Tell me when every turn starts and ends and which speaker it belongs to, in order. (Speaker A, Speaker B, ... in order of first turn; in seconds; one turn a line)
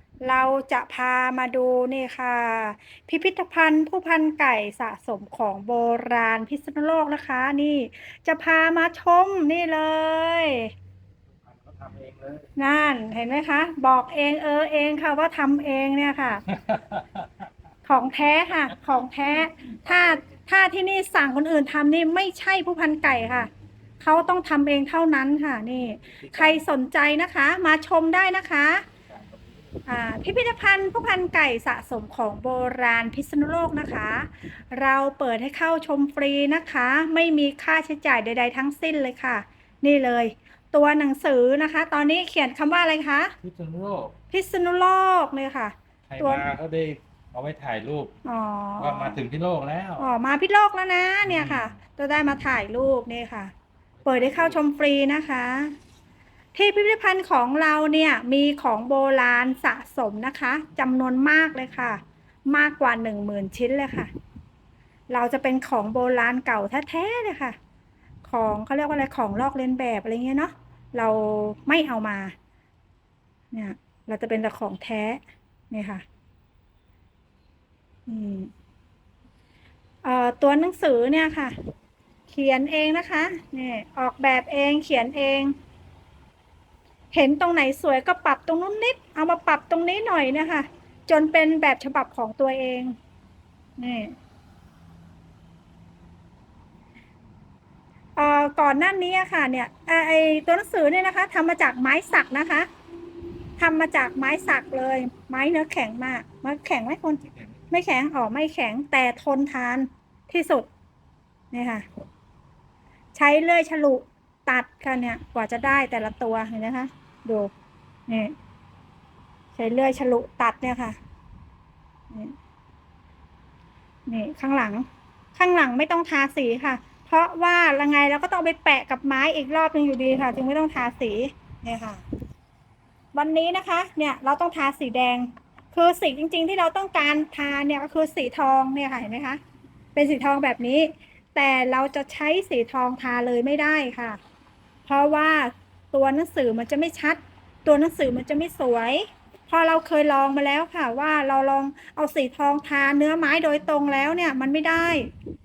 Speaker A: 0.2-10.7
Speaker B: 11.4-12.5
Speaker A: 12.6-16.4
Speaker B: 16.5-17.3
Speaker A: 17.9-23.5
Speaker A: 24.0-28.9
Speaker B: 26.2-26.6
Speaker B: 29.1-29.5
Speaker A: 29.9-43.3
Speaker B: 43.4-44.2
Speaker A: 44.3-46.5
Speaker B: 46.1-48.1
Speaker A: 48.2-49.2
Speaker B: 48.8-50.1
Speaker A: 50.0-53.5
Speaker B: 51.2-51.8
Speaker B: 54.0-54.6
Speaker A: 54.1-55.8
Speaker A: 56.5-64.1
Speaker A: 65.1-67.6
Speaker A: 68.2-72.3
Speaker A: 73.5-76.0
Speaker A: 78.1-78.5
Speaker A: 80.0-81.5
Speaker A: 82.3-85.5
Speaker A: 87.1-93.0
Speaker A: 93.8-94.2
Speaker A: 98.2-102.7
Speaker A: 103.6-110.7
Speaker A: 111.5-111.9
Speaker A: 113.1-117.5
Speaker A: 118.1-118.3
Speaker A: 119.5-121.0
Speaker A: 124.1-132.0
Speaker A: 133.2-139.4
Speaker A: 139.9-144.2
Speaker A: 144.9-155.1